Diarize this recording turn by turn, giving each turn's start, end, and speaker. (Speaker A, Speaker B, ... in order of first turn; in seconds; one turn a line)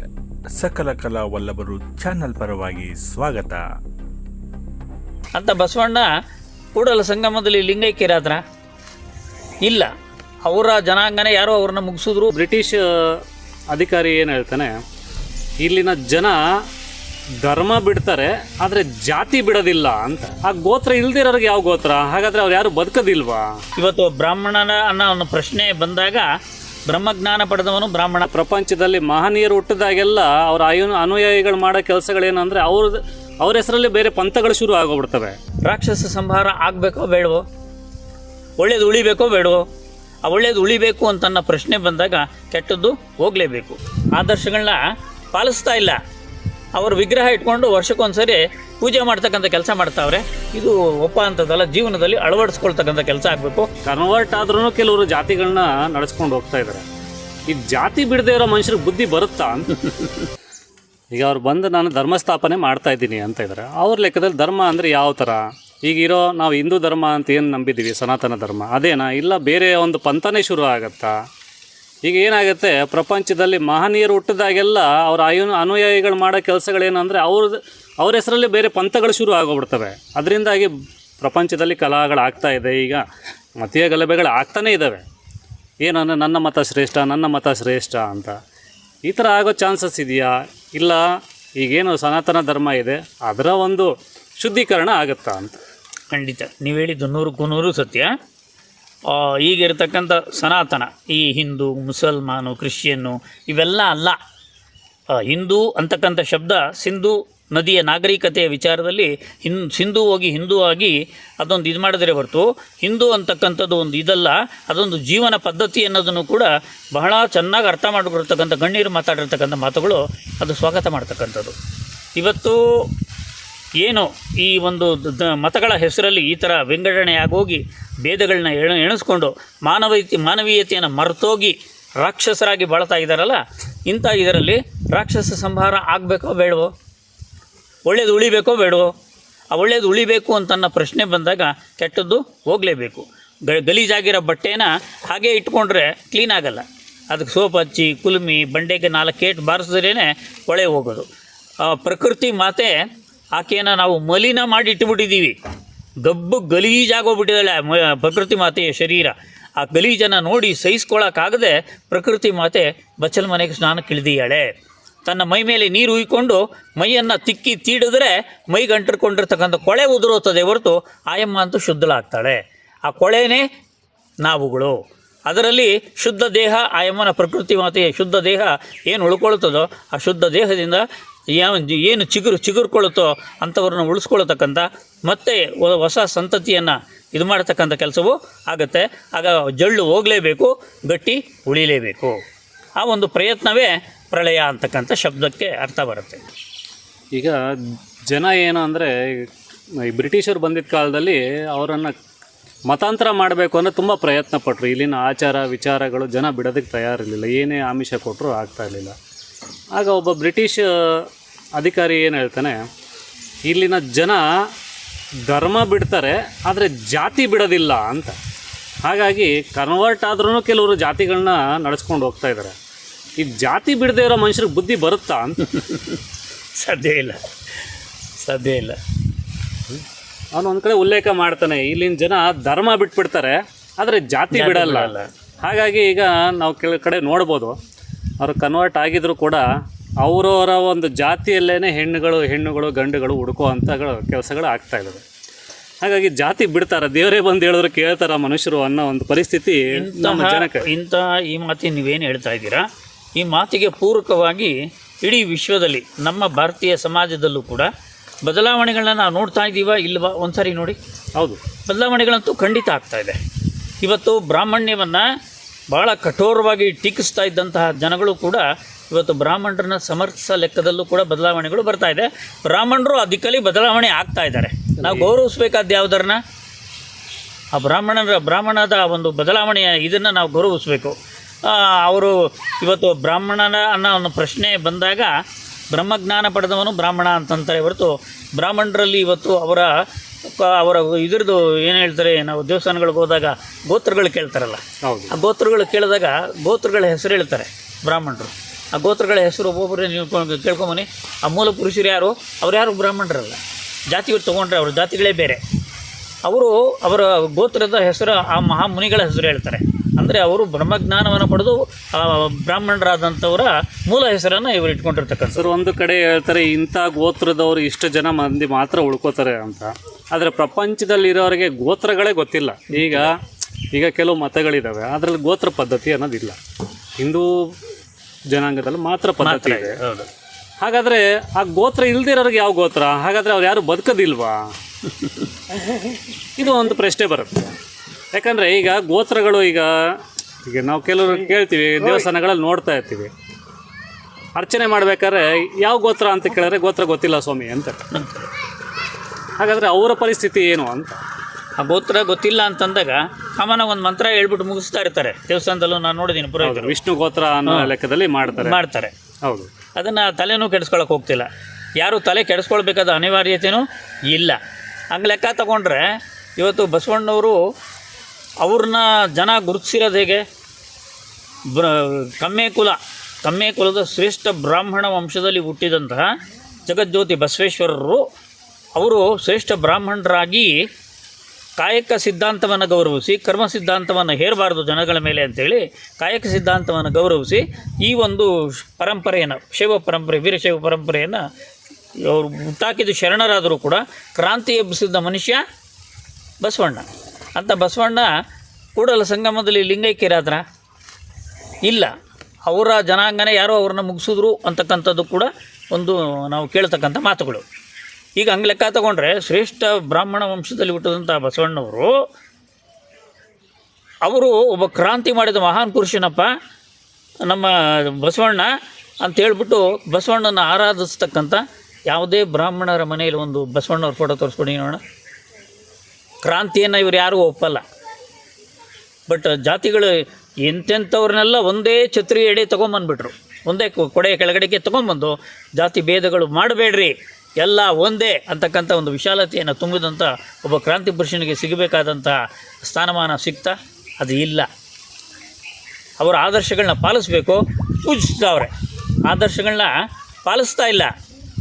Speaker A: 0.5-3.6
Speaker B: 5.3-6.1
Speaker B: 6.8-8.4
Speaker B: 9.6-9.9
Speaker B: 10.4-12.3
Speaker C: 12.3-14.8
Speaker C: 15.6-16.4
Speaker C: 17.4-23.5
Speaker B: 23.8-26.3
Speaker B: 26.9-28.3
Speaker C: 28.3-35.4
Speaker B: 35.6-37.4
Speaker B: 38.6-39.6
Speaker B: 40.2-44.8
Speaker B: 45.3-46.0
Speaker B: 46.8-53.7
Speaker C: 53.8-56.9
Speaker C: 57.5-59.8
Speaker C: 61.1-71.1
Speaker C: 72.0-83.0
Speaker C: 83.6-85.0
Speaker C: 85.8-88.4
Speaker C: 89.1-91.0
Speaker C: 91.6-95.6
Speaker B: 96.1-98.1
Speaker B: 99.1-104.2
Speaker B: 105.2-121.5
Speaker B: 122.2-122.9
Speaker B: 123.8-136.7
Speaker B: 137.9-138.9
Speaker B: 139.5-151.1
Speaker B: 151.6-152.7
Speaker B: 153.3-155.3
Speaker B: 156.0-164.5
Speaker B: 165.1-173.4
Speaker B: 174.2-180.8
Speaker B: 181.4-192.2
Speaker B: 192.8-196.2
Speaker C: 198.1-199.3
Speaker C: 199.8-201.9
Speaker C: 202.7-208.9
Speaker C: 209.7-212.6
Speaker C: 213.5-214.2
Speaker C: 215.2-218.2
Speaker C: 218.8-222.6
Speaker C: 223.2-225.4
Speaker B: 225.5-226.0
Speaker B: 226.6-227.2
Speaker B: 228.2-228.8
Speaker C: 230.3-237.6
Speaker B: 234.3-235.1
Speaker C: 238.2-239.5
Speaker C: 240.0-245.0
Speaker C: 245.8-250.6
Speaker B: 249.7-252.6
Speaker B: 253.2-257.7
Speaker B: 258.3-260.8
Speaker C: 261.2-261.4
Speaker B: 261.6-263.2
Speaker B: 263.8-265.1
Speaker B: 265.7-276.2
Speaker C: 274.8-275.1
Speaker B: 277.5-285.1
Speaker B: 285.7-289.7
Speaker B: 290.3-303.4
Speaker C: 294.8-295.1
Speaker B: 303.9-305.4
Speaker B: 306.3-315.5
Speaker C: 315.3-323.2
Speaker B: 322.7-323.1
Speaker C: 323.7-326.4
Speaker C: 327.0-327.5
Speaker C: 328.3-329.8
Speaker B: 329.2-330.1
Speaker C: 330.6-334.4
Speaker C: 335.6-337.5
Speaker C: 338.1-343.1
Speaker C: 344.4-347.8
Speaker C: 349.4-351.0
Speaker B: 351.6-356.8
Speaker C: 356.4-358.6
Speaker B: 358.4-358.9
Speaker C: 359.2-359.5
Speaker B: 359.8-361.3
Speaker B: 361.8-364.4
Speaker B: 364.9-367.4
Speaker B: 368.4-370.2
Speaker B: 371.5-376.1
Speaker B: 376.7-378.1
Speaker B: 378.8-380.6
Speaker B: 381.6-391.2
Speaker B: 392.0-395.4
Speaker B: 396.4-398.1
Speaker B: 398.8-400.4
Speaker B: 401.6-401.9
Speaker B: 402.5-407.4
Speaker B: 408.2-411.9
Speaker B: 414.1-416.3
Speaker B: 417.3-418.5
Speaker B: 419.0-424.8
Speaker B: 426.2-427.6
Speaker B: 429.1-444.5
Speaker B: 446.0-448.5
Speaker B: 449.1-449.7
Speaker B: 450.2-450.9